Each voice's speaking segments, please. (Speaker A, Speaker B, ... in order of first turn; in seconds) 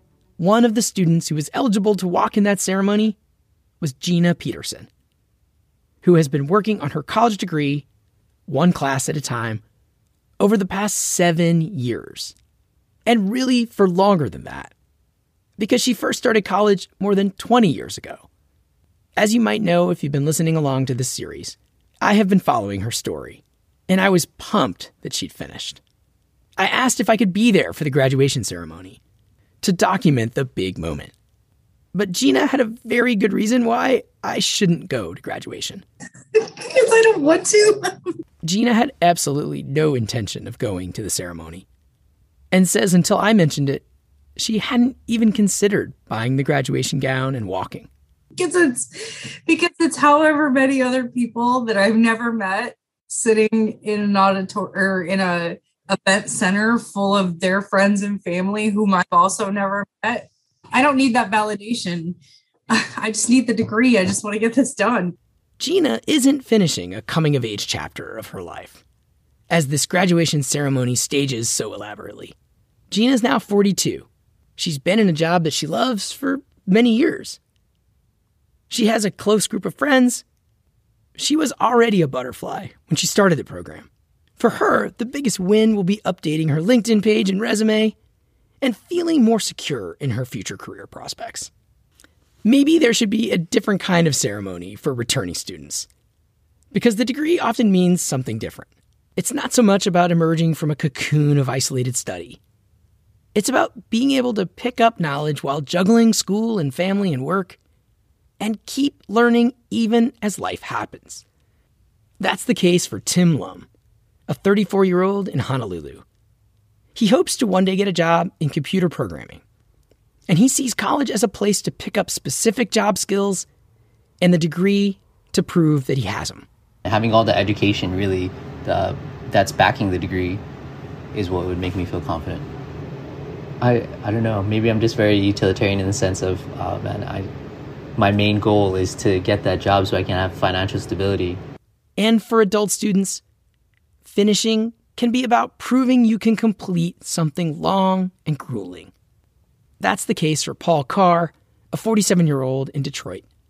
Speaker A: 0.4-3.2, 3.8-4.9, 6.0-7.8, 8.5-9.6, 10.4-12.3, 13.1-14.7, 15.6-18.3, 19.2-25.8, 26.6-29.0, 29.6-31.1, 31.9-35.8, 38.4-41.6, 42.5-43.8, 44.4-47.9, 65.6-68.8, 69.5-72.3, 72.9-77.4, 78.7-80.2, 81.2-88.0, 88.6-91.5, 92.4-95.9, 96.7-102.4, 103.3-107.6, 108.4-111.2, 112.2-113.7, 114.3-116.0, 116.9-119.4, 120.3-123.5, 124.2-126.5, 142.0-143.2, 144.0-148.9, 149.8-153.2
Speaker B: 36.3-38.1, 48.4-62.2, 62.7-65.2
Speaker C: 126.8-130.4, 131.1-132.4, 133.6-137.3, 138.0-141.4